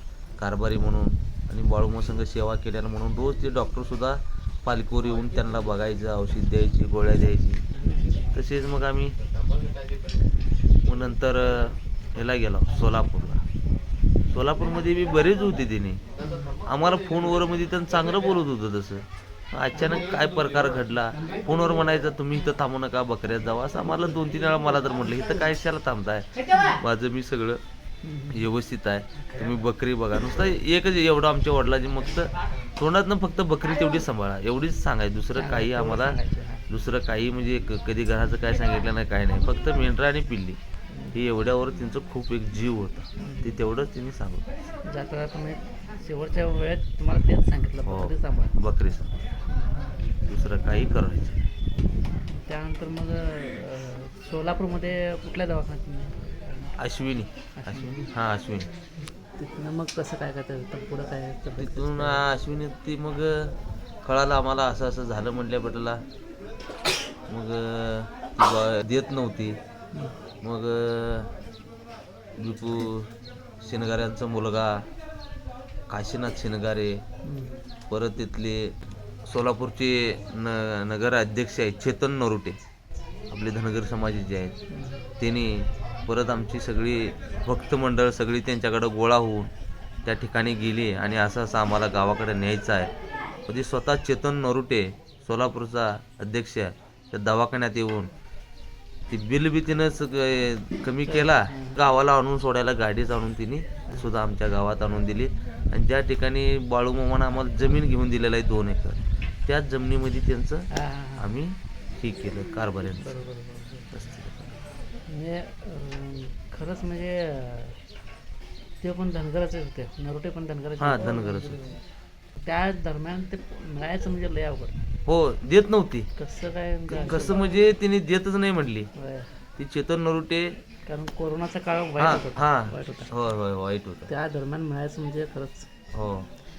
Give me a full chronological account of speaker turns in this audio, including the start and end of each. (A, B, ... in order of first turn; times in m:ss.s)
0:00.4-0:07.6 A
0:07.8-0:08.1 B
0:08.3-0:09.1 A
0:10.8-0:13.4 A
0:14.3-0:16.0 A
0:16.2-0:16.6 B
0:16.6-0:27.6 A
0:28.0-0:28.5 B
0:28.3-0:36.2 A
0:35.4-0:36.6 B
0:36.7-0:40.6 A
0:40.9-0:41.2 B
0:41.1-0:44.4 A
0:43.2-0:43.6 B
0:44.9-0:48.5 B
0:47.9-0:49.1 A
0:49.5-0:49.9 B
0:50.3-0:51.4 A
0:52.3-0:56.8 B
0:56.8-0:58.7 A
0:57.6-0:58.1 B
0:59.4-1:02.2 B
1:01.6-1:06.0 A
1:07.3-1:09.6 A
1:10.4-1:11.3 A
1:12.4-1:13.1 A
1:13.6-1:14.7 A
1:15.9-1:17.0 A
1:17.2-1:17.6 B
1:17.9-1:18.7 A
1:19.3-1:22.6 A
1:23.3-1:24.6 A
1:24.7-1:25.1 B
1:25.2-1:29.5 A
1:30.0-1:32.9 A
1:33.5-1:38.1 A
1:39.1-1:50.6 A
1:41.1-1:41.8 B
1:50.7-1:51.3 B
1:51.2-1:53.1 A
1:53.0-1:53.9 B
1:53.9-1:54.6 A
1:55.1-1:57.8 B
1:58.8-2:01.8 B
2:00.8-2:01.7 A
2:02.4-2:04.8 B
2:05.1-2:06.1 A
2:06.2-2:07.4 B
2:06.9-2:08.9 A
2:09.0-2:09.3 B
2:09.6-2:10.6 A
2:10.9-2:13.1 B
2:12.0-2:14.1 A
2:14.1-2:15.7 B
2:15.9-2:16.3 A